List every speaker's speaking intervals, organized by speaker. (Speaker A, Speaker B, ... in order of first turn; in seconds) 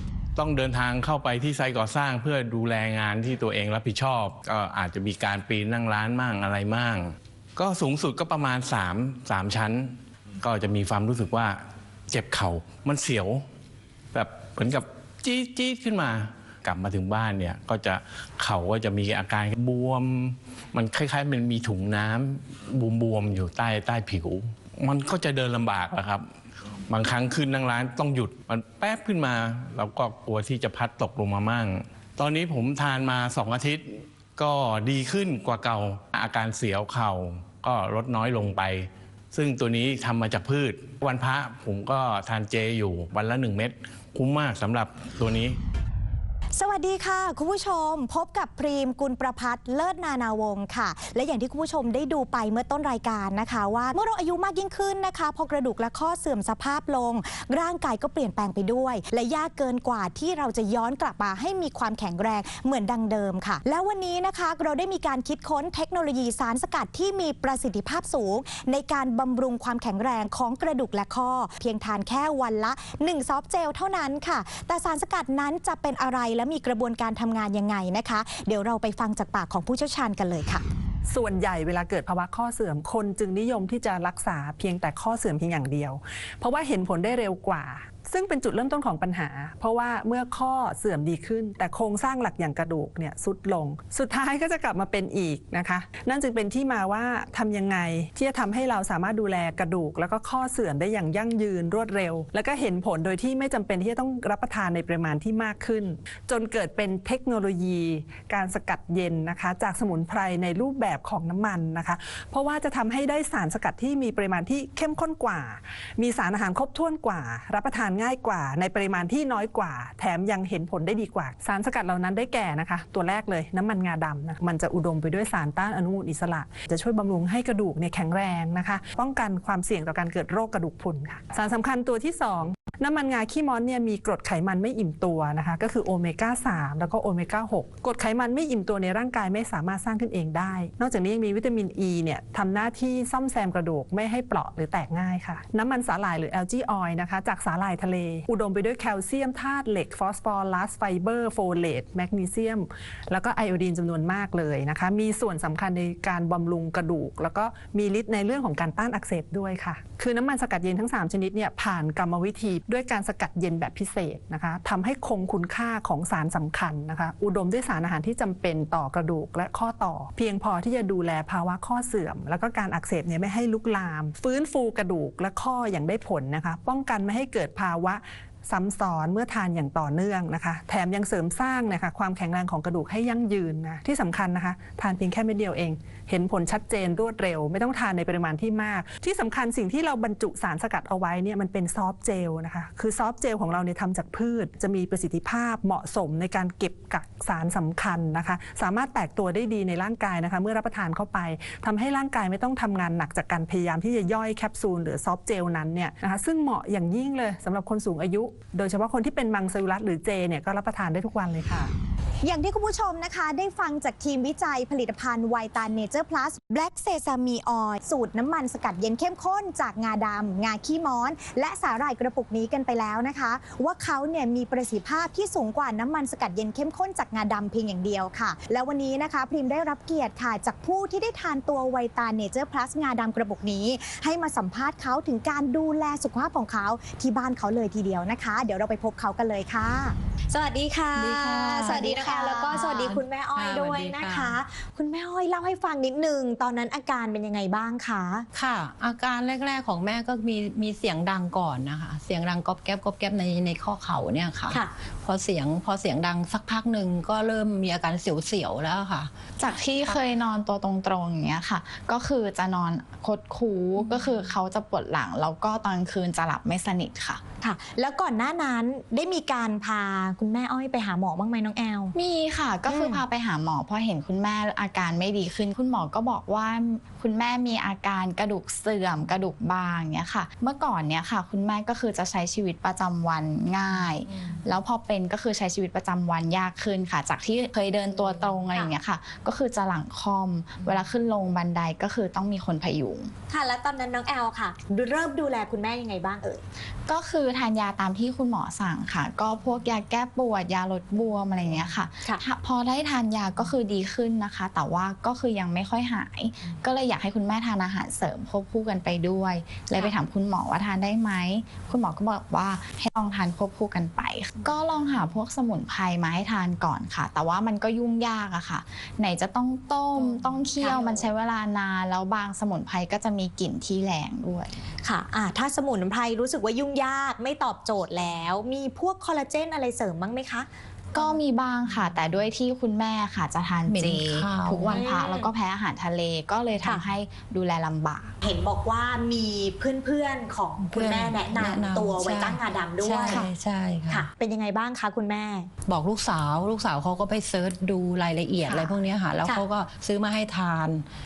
Speaker A: 0.4-13.4, 14.1-26.2, 26.9-45.6
Speaker B: 46.5-80.6, 212.2-248.3, 267.4-271.9, 272.7-273.0, 293.3-296.4, 319.9-321.1, 324.8-330.5, 334.7-335.3, 338.2-343.3, 343.9-345.5, 348.4-349.4
Speaker C: 81.1-211.7
Speaker D: 240.9-244.4, 248.4-259.1, 333.7-334.8, 340.7-344.1, 345.7-350.9
Speaker E: 241.8-242.6, 259.4-267.2, 271.9-293.1, 296.9-324.6, 330.9-338.2